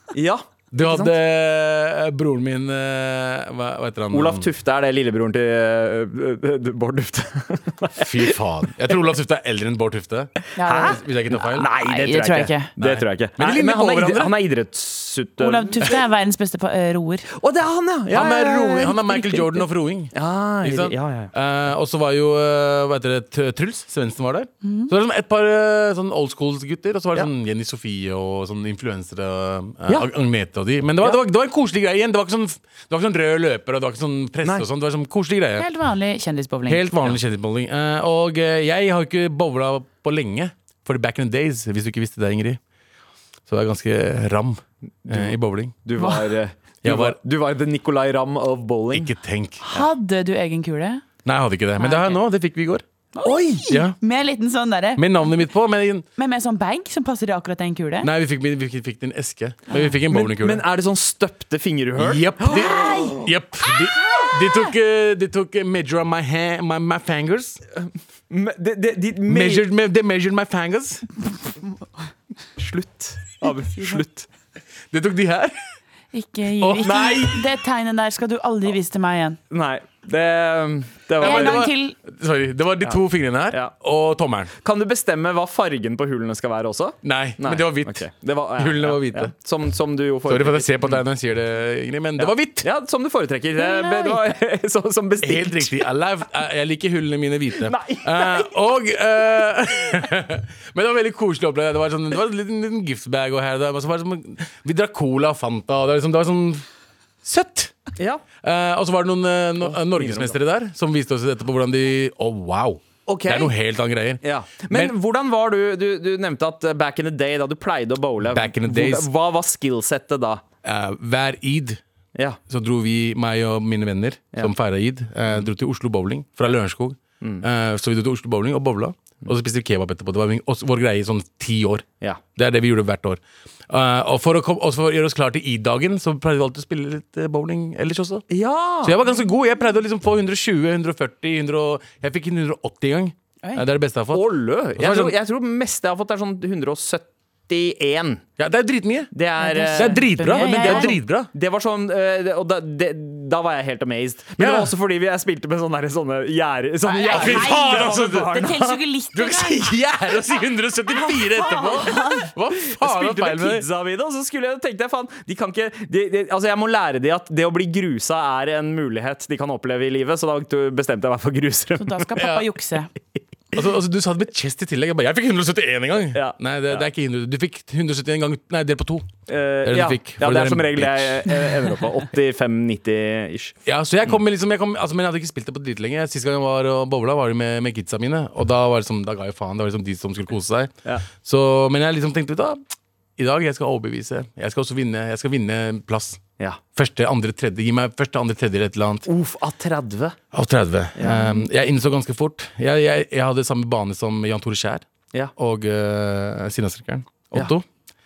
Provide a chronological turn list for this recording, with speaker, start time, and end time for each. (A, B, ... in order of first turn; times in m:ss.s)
0:00.1-0:01.1 A
0:00.7-0:04.5 B
0:04.1-0:08.4 A
0:08.0-0:11.7 B
0:10.6-0:11.0 C
0:10.6-0:15.8 A
0:11.6-0:12.7 C
0:12.8-0:14.3 B
0:15.4-0:17.3 C
0:17.3-0:21.3 A
0:18.1-0:35.6 B
0:24.6-0:24.9 C
0:35.6-0:36.9 C
0:36.7-0:42.6 B
0:43.5-0:45.8 B
0:45.0-0:45.3 A
0:45.8-0:49.1 A
0:46.8-0:47.2 B
0:48.9-0:49.6 B
0:49.6-0:51.0 C
0:51.2-0:52.8 B
0:51.8-0:52.2 C
0:53.2-0:55.0 C
0:53.2-0:53.6 A
0:53.7-0:54.0 B
0:55.0-0:56.0 B
0:56.2-0:58.1 C
0:58.0-1:00.6 B
1:00.0-1:03.2 A
1:02.0-1:07.6 B
1:02.5-1:03.2 C
1:07.7-1:09.6 A
1:09.3-1:11.1 B
1:12.6-1:14.3 A
1:13.7-1:14.0 C
1:14.9-1:15.5 B
1:16.1-1:19.4 C
1:16.6-1:17.3 B
1:16.8-1:17.4 A
1:19.5-1:21.7 A
1:21.2-1:24.5 B
1:21.2-1:22.0 C
1:22.8-1:23.7 A
1:24.6-1:31.0 A
1:27.0-1:29.3 B
1:30.3-1:32.7 B
1:32.2-1:35.8 A
1:33.6-1:34.2 C
1:35.2-1:46.6 B
1:37.6-1:38.5 A
1:47.2-1:47.7 B
1:48.0-1:48.2 A
1:48.4-1:54.9 B
1:49.6-1:50.4 A
1:53.0-1:53.5 A
1:54.2-2:00.4 A
1:58.3-1:59.1 B
2:00.6-2:01.8 B
2:02.5-2:13.2 B
2:13.7-2:18.2 B
2:18.3-2:19.0 A
2:18.8-2:24.2 B
2:24.1-2:28.2 A
2:24.8-2:25.1 B
2:28.4-2:29.1 B
2:29.1-2:38.8 A
2:29.4-2:30.9 C
2:29.7-2:31.3 B
2:34.4-2:34.7 B
2:36.9-2:39.7 C
2:37.0-2:38.4 B
2:39.1-2:43.6 B
2:41.0-2:42.0 A
2:41.4-2:42.3 C
2:42.6-2:52.1 A
2:51.8-2:52.9 C
2:52.2-2:52.4 B
2:53.5-2:59.1 B
2:56.1-2:56.8 A
2:59.3-3:03.5 A
2:59.6-3:01.5 B
3:03.6-3:12.6 B
3:13.2-3:16.2 B
3:16.7-3:19.1 B
3:19.0-3:20.2 A
3:20.3-3:24.8 B
3:21.0-3:21.3 A
3:25.4-3:27.6 B